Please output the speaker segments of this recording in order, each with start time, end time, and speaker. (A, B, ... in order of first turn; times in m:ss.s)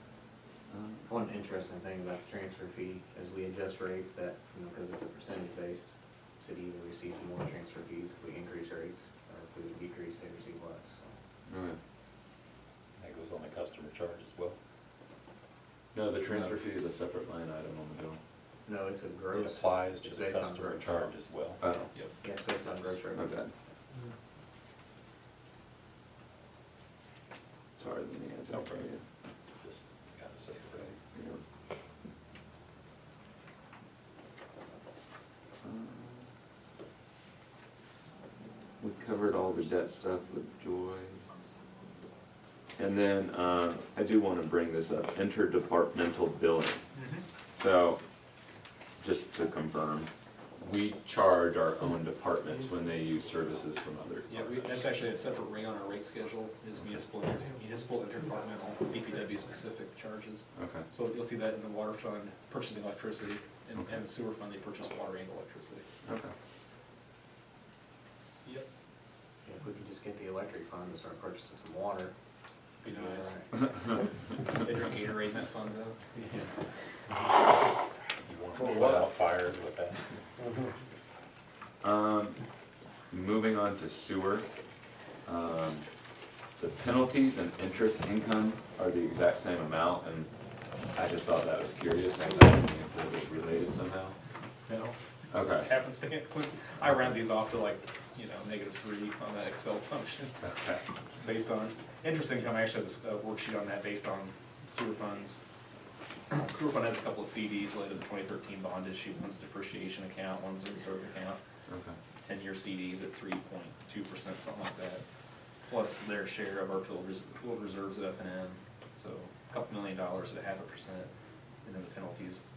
0:01.1-0:11.1 A
0:11.5-0:11.8 B
0:13.0-0:14.6 C
0:15.9-0:18.2 B
0:18.6-0:21.1 A
0:19.3-0:21.6 C
0:21.6-0:21.9 B
0:22.2-0:23.3 A
0:23.1-0:23.5 B
0:27.8-0:29.0 B
0:28.5-0:28.8 C
0:29.6-0:30.9 C
0:31.1-0:31.4 B
0:35.6-0:36.3 B
0:38.8-0:41.2 B
0:42.8-0:46.8 B
0:47.0-0:47.2 D
0:47.5-0:48.0 B
0:49.0-0:54.9 B
0:54.3-1:05.8 D
1:00.5-1:00.8 B
1:06.0-1:06.3 B
1:09.4-1:12.1 A
1:12.8-1:13.4 D
1:12.8-1:13.7 A
1:14.5-1:16.5 D
1:18.2-1:20.0 C
1:18.5-1:19.1 B
1:21.8-1:22.4 B
1:23.1-1:24.5 B
1:25.2-1:25.8 B
1:26.6-1:30.3 B
1:30.9-1:34.2 B
1:34.7-1:34.9 D
1:35.3-1:35.7 B
1:35.6-1:40.3 D
1:40.4-1:40.8 B
1:41.2-1:45.4 D
1:46.3-1:51.4 D
1:51.7-1:52.0 B
1:52.2-1:55.0 D
1:55.6-2:01.1 D
2:01.6-2:02.4 D